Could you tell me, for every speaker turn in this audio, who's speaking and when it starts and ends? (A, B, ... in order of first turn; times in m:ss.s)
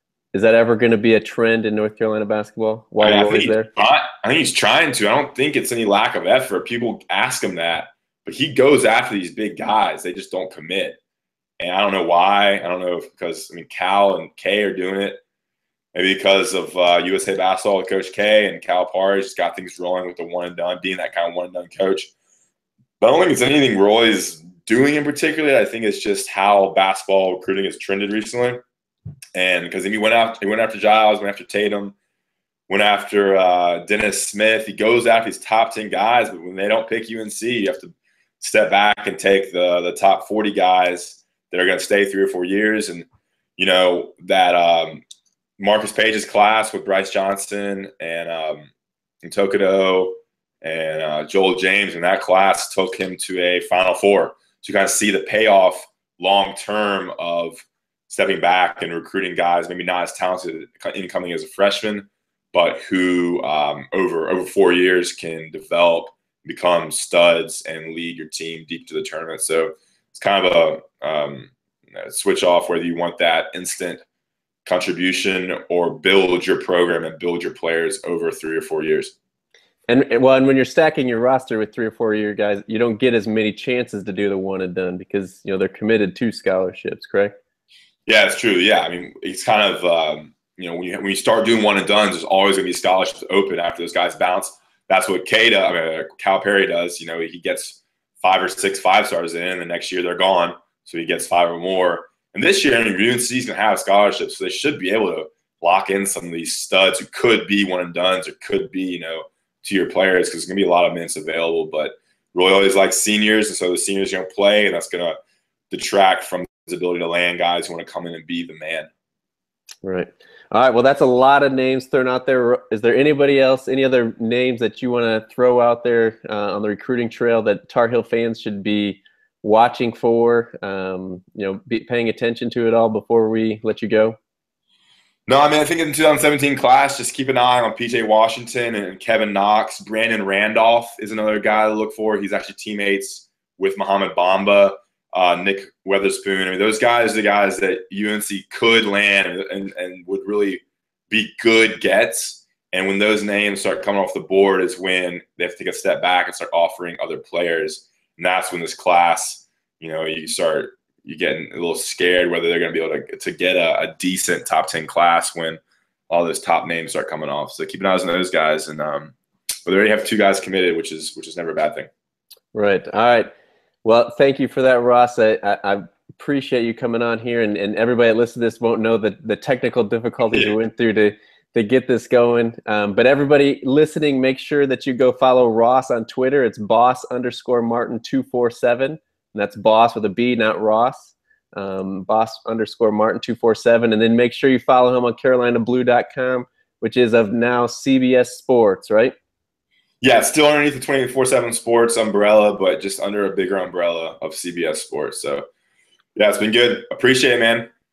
0:00.3-0:03.7 A
0:03.0-0:11.0 B
0:11.6-0:15.2 B
0:15.9-0:22.1 B
0:23.0-0:28.6 B
0:29.3-0:31.9 B
0:32.7-0:43.0 B
0:43.6-0:45.0 B
0:45.6-0:48.7 B
0:49.2-1:14.0 B
1:14.6-1:19.1 B
1:19.9-1:27.3 A
1:28.0-1:55.2 B
1:55.7-1:58.9 B
1:59.8-2:14.2 A
2:15.3-2:45.6 B
2:46.1-2:51.9 B
2:52.5-2:53.3 A
2:53.8-3:19.1 A
3:20.0-3:25.4 B
3:26.2-3:27.7 B